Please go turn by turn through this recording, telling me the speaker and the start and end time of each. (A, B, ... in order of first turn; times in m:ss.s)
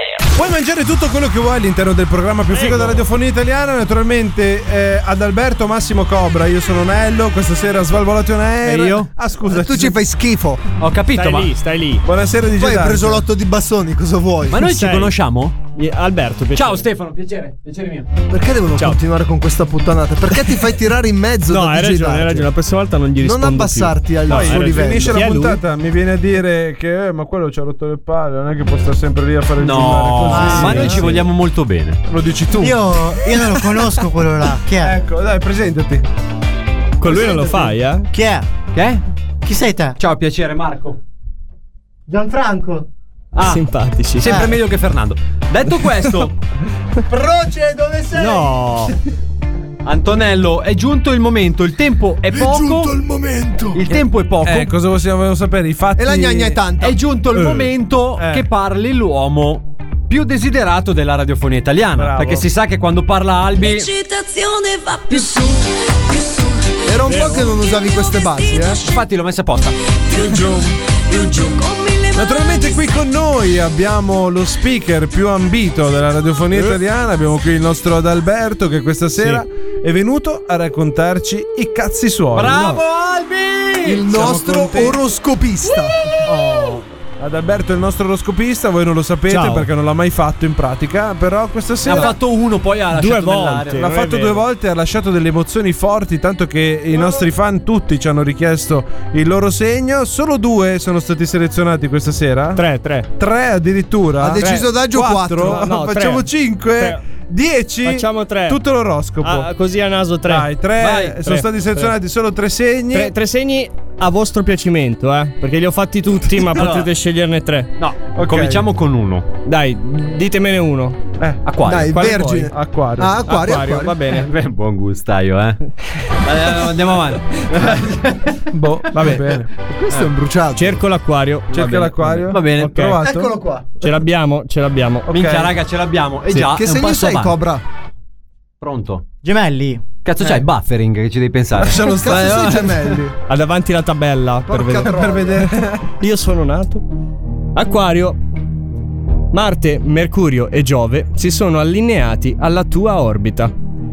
0:00.3-0:10.0 A
0:02.5-0:03.0 B
0:08.6-0:09.1 C
0:09.4-0:10.6 D
0:10.8-0:11.5 C
0:11.1-0:12.0 B
0:12.0-0:13.2 A
0:12.5-0:14.6 D
0:14.5-0:15.6 C
0:14.5-0:15.1 B
0:15.7-0:16.9 B
0:16.5-0:18.1 C
0:18.3-0:22.5 D
0:21.4-0:24.1 B
0:23.2-0:25.2 D
0:24.2-0:31.1 A
0:24.3-0:24.7 C
0:24.8-0:25.6 B
0:29.6-0:32.0 C
0:30.4-0:30.7 E
0:32.1-0:33.0 A
0:32.6-0:35.0 E
0:34.8-0:36.0 A
0:37.0-0:38.1 B
0:38.1-0:38.5 E
0:38.7-0:39.0 C
0:39.4-0:40.0 E
0:40.0-0:41.0 C
0:42.1-0:42.9 E
0:43.3-0:46.3 C
0:43.4-0:44.4 B
0:44.2-0:44.6 E
0:47.1-0:48.6 D
0:48.1-0:49.0 B
0:49.8-0:52.9 C
0:52.3-0:54.0 D
0:53.7-0:54.7 C
0:54.4-0:56.6 A
0:56.0-0:57.0 D
0:56.8-1:03.9 C
0:57.4-0:58.4 A
1:01.9-1:02.5 A
1:03.6-1:09.0 F
1:06.8-1:08.8 D
1:07.0-1:07.4 B
1:08.9-1:09.7 C
1:10.1-1:12.9 F
1:10.1-1:11.5 A
1:12.1-1:22.8 A
1:19.2-1:19.4 B
1:22.3-1:25.0 C
1:23.8-1:26.0 D
1:24.2-1:24.9 A
1:27.2-1:32.1 A
1:29.3-1:29.7 B
1:31.8-1:32.1 B
1:31.8-1:33.9 C
1:32.9-1:34.4 B
1:33.7-1:49.5 A
1:42.5-1:43.1 B
1:44.2-1:45.8 D
1:44.2-1:44.7 B
1:45.4-1:47.0 B
1:47.8-1:48.6 B
1:49.2-1:50.5 B
1:50.3-1:53.2 A
1:50.8-1:51.2 C
1:51.1-1:51.9 B
1:52.9-1:57.7 B
1:56.5-1:56.9 C
1:57.8-1:59.3 C
1:58.2-1:58.6 A
1:59.4-2:01.0 B
2:01.4-2:01.9 C
2:01.6-2:04.0 D
2:01.8-2:02.5 B
2:02.5-2:03.2 A
2:03.3-2:04.3 B
2:04.1-2:05.6 C
2:06.2-2:09.2 C
2:08.5-2:09.5 A
2:09.8-2:10.8 D
2:10.5-2:13.0 B
2:11.5-2:13.3 A
2:12.3-2:12.9 C
2:13.0-2:13.8 D
2:13.8-2:15.1 B
2:15.1-2:15.5 A
2:15.1-2:17.4 C
2:16.3-2:17.6 D
2:18.6-2:19.0 C
2:19.2-2:19.8 E
2:20.0-2:23.0 C
2:21.6-2:23.1 D
2:23.3-2:25.0 B
2:24.5-2:25.4 D
2:24.8-2:25.9 A
2:25.9-2:26.8 B
2:27.5-2:28.2 B
2:29.3-2:33.5 B